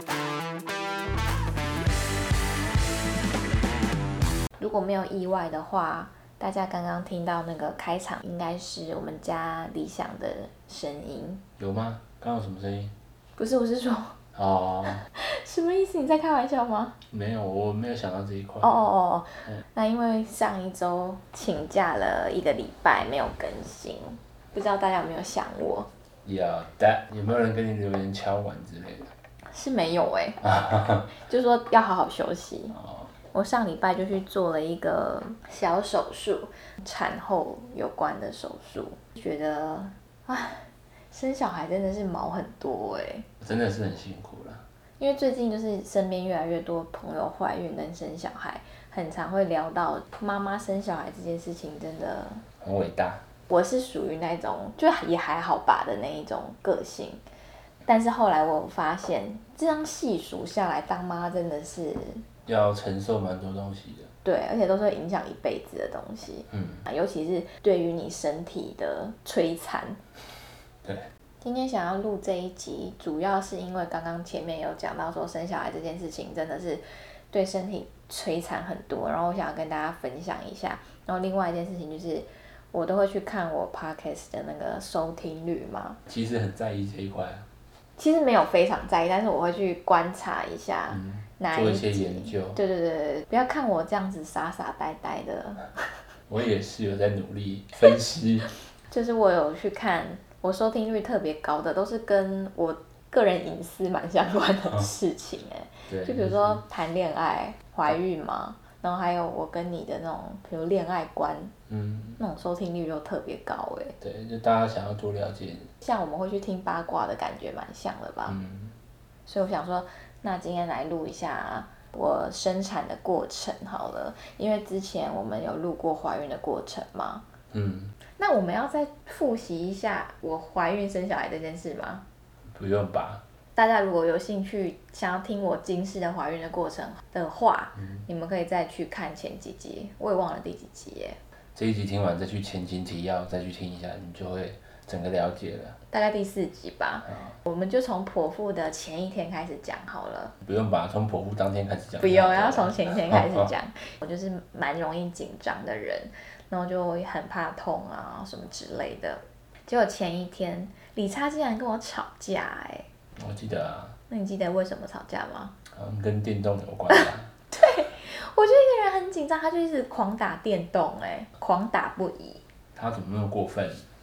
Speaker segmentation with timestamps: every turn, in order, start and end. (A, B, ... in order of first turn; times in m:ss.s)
0:04.6-0:11.4 A
0:11.6-0:12.9 B
0:13.4-0:14.2 A
0:14.3-0:15.0 B
0:15.1-0:17.0 A
0:17.1-0:18.7 B
0:18.6-0:25.9 A
0:26.2-0:29.1 B
0:29.5-0:30.5 A
0:30.4-0:31.1 B
0:31.1-0:32.8 A
0:32.8-0:33.1 B
0:33.3-0:43.3 A
0:43.4-0:44.6 B
0:45.0-0:52.4 A
0:52.6-0:53.2 B
0:53.5-0:57.2 A
0:57.9-1:02.2 A
1:02.4-1:04.1 B
1:04.2-1:10.0 A
1:06.5-1:06.8 B
1:11.4-1:26.0 A
1:26.1-1:27.4 B
1:28.0-1:35.7 A
1:30.9-1:32.6 B
1:36.3-1:38.5 B
1:38.9-1:51.5 A
1:45.9-1:46.6 B
1:51.7-1:52.2 B
1:52.2-1:54.0 A
1:54.0-1:55.7 B
1:55.8-1:58.4 A
1:58.2-1:58.7 B
1:59.3-2:07.2 A
2:07.5-2:07.9 B
2:08.2-2:12.0 A
2:12.5-2:13.2 B
2:13.6-2:21.2 A
2:21.5-2:25.8 B
2:25.9-2:30.3 A
2:27.1-2:27.4 B
2:30.4-2:33.5 B
2:32.0-2:42.8 A
2:43.2-2:43.9 B
2:44.1-2:45.5 A
2:45.7-2:47.3 B
2:46.9-2:52.4 A
2:52.7-2:53.8 B